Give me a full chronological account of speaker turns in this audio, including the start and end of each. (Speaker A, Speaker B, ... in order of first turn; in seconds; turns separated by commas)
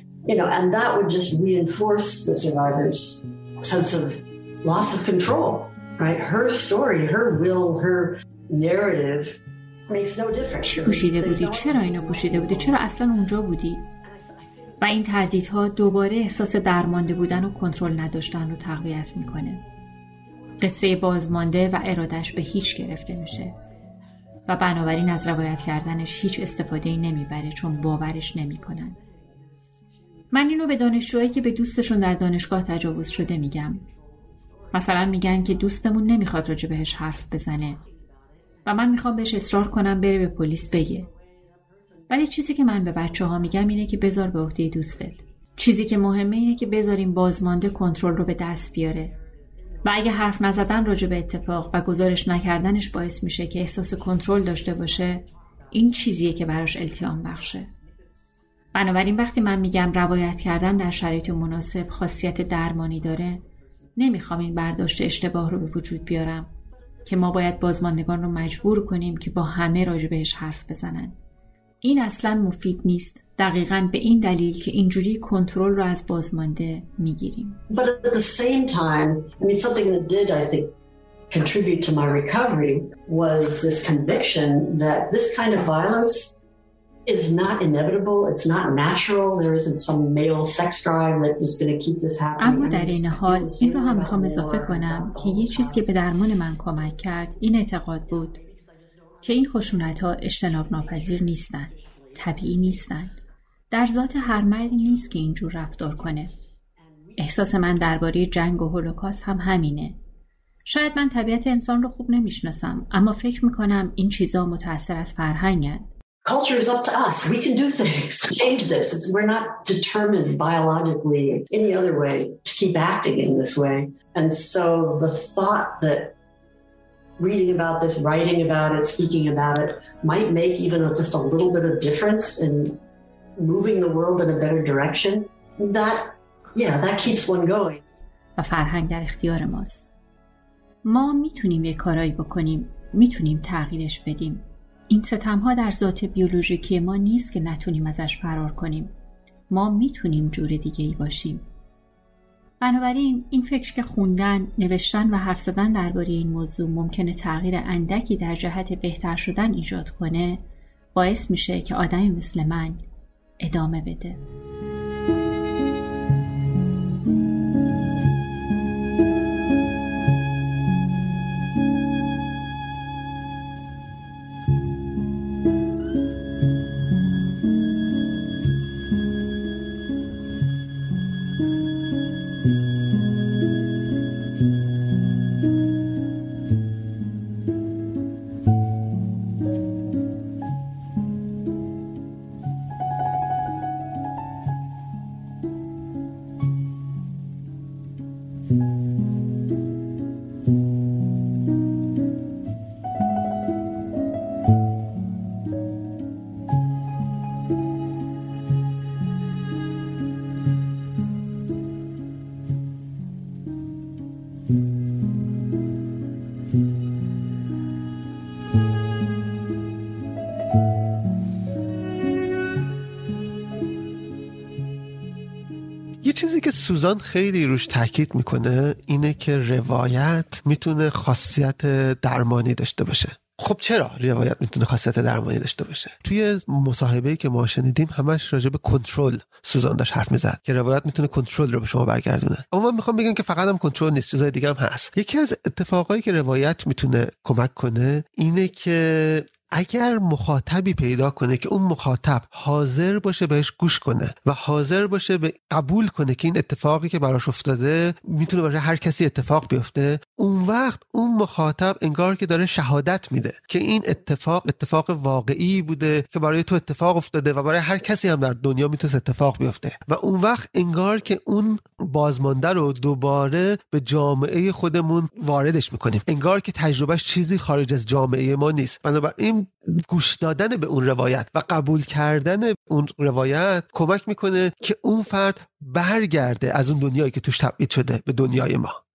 Speaker A: 0.2-65.7, Speaker B: 10.7-13.8, Speaker B: 14.8-19.6, Speaker B: 20.6-23.6, Speaker B: 24.5-29.0, Speaker B: 30.3-33.8, Speaker B: 34.7-37.8, Speaker B: 38.7-41.1, Speaker B: 42.1-49.1, Speaker B: 49.8-57.7, Speaker B: 58.7-63.4, Speaker B: 64.0-66.5, Speaker A: 66.6-69.2, Speaker B: 67.1-71.2, Speaker B: 71.8-77.6, Speaker A: 77.7-80.8, Speaker A: 81.3-86.3, Speaker A: 87.1-103.2, Speaker B: 92.4-98.4, Speaker B: 99.2-103.2, Speaker B: 103.7-106.3, Speaker A: 103.8-108.1, Speaker B: 107.2-110.0, Speaker B: 110.7-115.9, Speaker A: 116.2-126.2, Speaker A: 127.2-132.8, Speaker A: 133.4-137.8, Speaker B: 138.4-139.9, Speaker B: 140.8-148.9, Speaker B: 149.5-151.5, Speaker B: 152.6-162.8, Speaker B: 163.4-164.2, Speaker C: 226.0-288.8